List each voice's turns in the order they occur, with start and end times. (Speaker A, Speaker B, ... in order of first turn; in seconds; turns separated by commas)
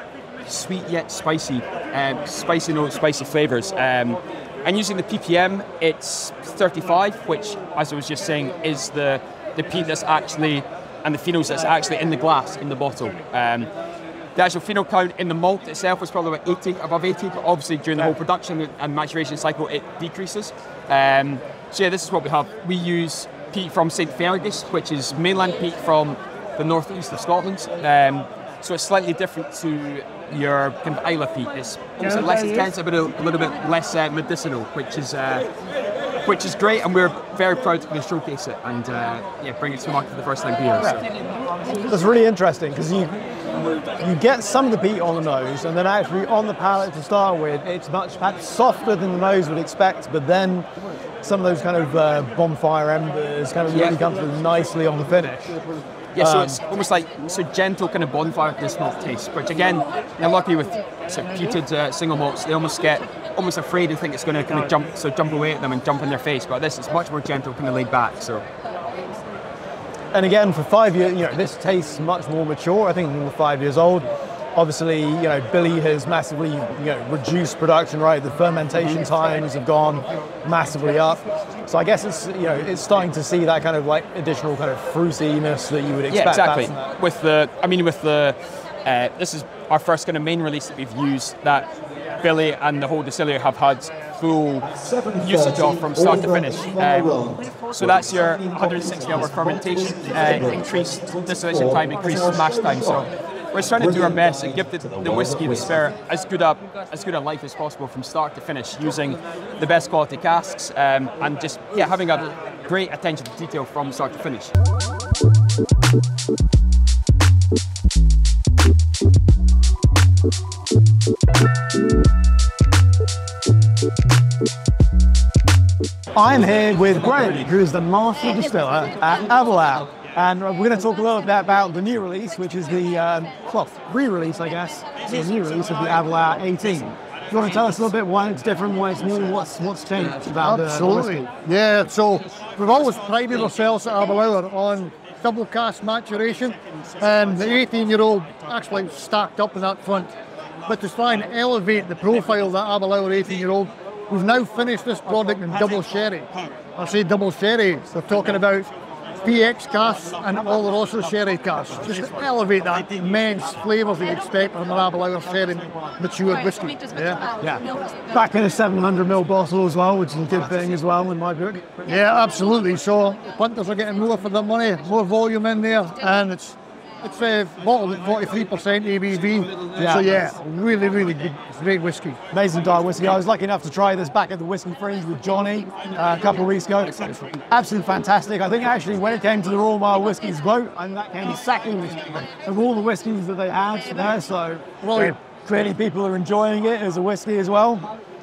Speaker A: 0.5-13.7, Speaker A: 14.3-35.5, Speaker A: 36.2-41.0, Speaker B: 41.8-43.1, Speaker B: 44.0-50.7, Speaker B: 51.2-55.5, Speaker A: 53.7-54.0, Speaker A: 56.1-68.5, Speaker B: 56.2-56.6, Speaker B: 70.1-86.9, Speaker A: 86.1-114.5, Speaker B: 126.1-141.2, Speaker C: 140.4-150.1, Speaker C: 150.7-158.7, Speaker C: 159.2-167.2, Speaker B: 167.4-171.8, Speaker C: 171.9-182.2, Speaker B: 179.7-180.1, Speaker B: 182.3-197.9, Speaker C: 194.8-195.1